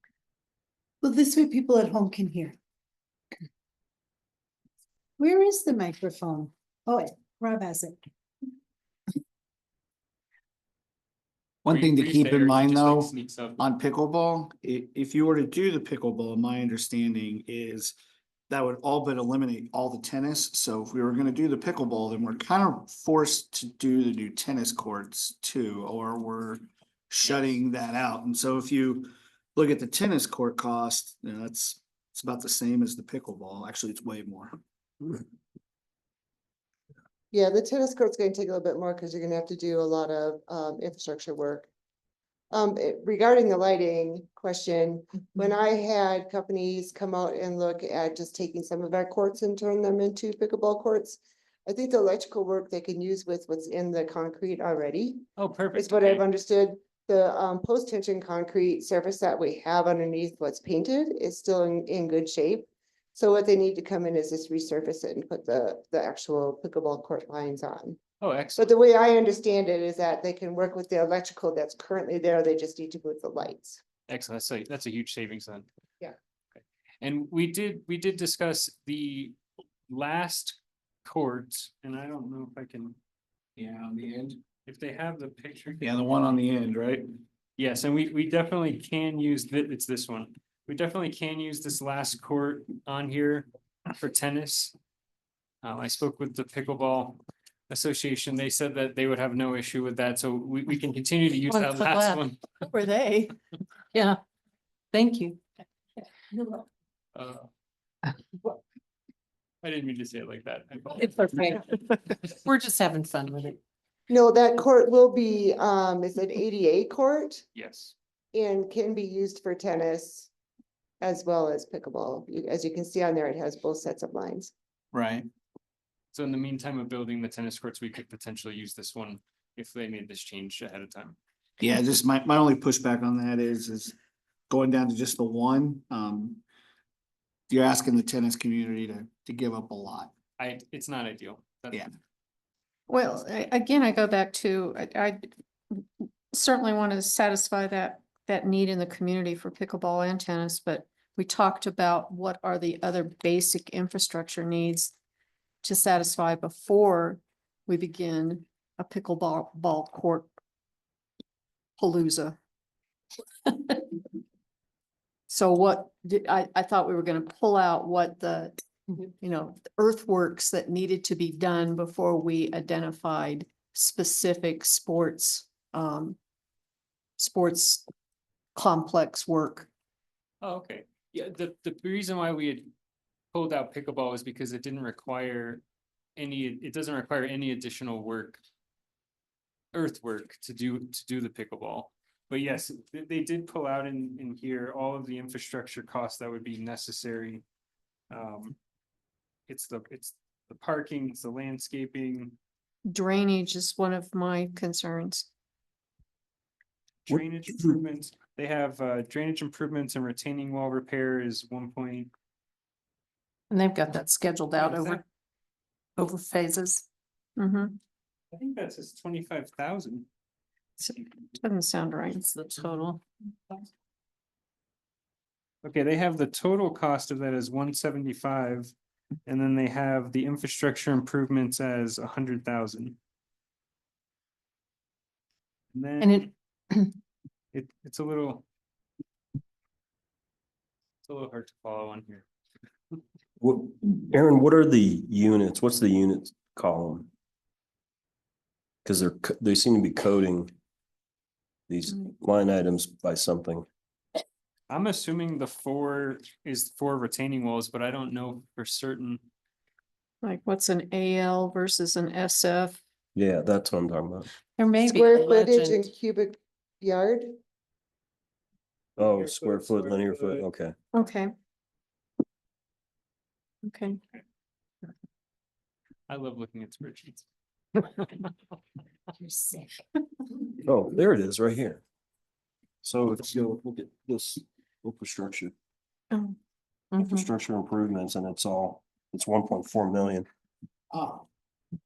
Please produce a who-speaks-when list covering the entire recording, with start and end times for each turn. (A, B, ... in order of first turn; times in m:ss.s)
0:01.0-0:02.6 A
0:05.2-0:08.0 A
0:11.6-0:17.9 B
0:11.7-0:13.6 C
0:18.5-0:34.6 B
0:37.3-0:41.7 D
0:42.5-1:08.0 D
0:55.4-0:56.2 C
1:08.2-1:08.7 C
1:08.6-1:13.8 D
1:14.1-1:15.7 C
1:16.6-1:19.4 C
1:19.9-1:23.0 C
1:23.6-1:24.4 B
1:24.6-1:25.9 C
1:25.8-1:27.1 B
1:27.6-1:34.7 C
1:35.6-1:42.4 C
1:41.5-1:42.2 E
1:42.6-1:43.3 F
1:43.9-1:44.2 E
1:44.9-1:45.4 E
1:47.1-1:47.5 C
1:49.6-1:51.6 C
1:51.1-1:51.6 E
1:52.4-1:53.6 E
1:54.1-1:57.4 D
1:57.5-1:57.9 C
1:58.3-2:00.3 D
2:01.0-2:04.5 D
2:04.9-2:05.3 B
2:06.1-2:11.2 C
2:11.6-2:13.9 B
2:14.5-2:16.4 B
2:17.5-2:20.1 B
2:20.4-2:21.9 C
2:22.9-2:34.9 F
2:35.6-2:40.3 F
2:41.8-2:42.4 F
2:45.3-2:48.5 F
2:49.1-2:56.2 F
2:57.2-2:57.8 F
2:58.5-2:59.7 F
3:00.4-3:02.7 C
3:03.3-3:05.6 C
3:06.2-3:08.4 C
3:09.7-3:17.4 C
3:18.1-3:18.6 C
3:19.5-3:22.4 C
3:22.9-3:25.3 F
3:27.1-3:32.1 C
3:33.5-3:35.0 E
3:34.6-3:35.0 C
3:36.0-3:36.8 E
3:37.4-3:37.7 F
3:38.3-3:40.1 C
3:40.8-3:42.2 F
3:42.2-3:43.0 E
3:45.6-3:48.7 C
3:49.2-3:53.0 C
3:55.7-3:56.3 C
3:57.5-3:58.4 C
4:01.0-4:02.2 C
4:03.4-4:07.1 G
4:08.8-4:10.5 G
4:11.7-4:13.6 G
4:14.7-4:19.2 C
4:20.2-4:22.8 F
4:23.1-4:24.3 G
4:24.6-4:25.8 E
4:24.8-4:27.4 D
4:29.0-4:30.7 G
4:30.9-4:31.3 F
4:33.6-4:34.0 F
4:36.1-4:37.2 C
4:40.6-4:41.8 G
4:42.8-4:45.5 G
4:46.1-4:46.4 F
4:47.0-4:50.2 G
4:50.9-4:51.2 B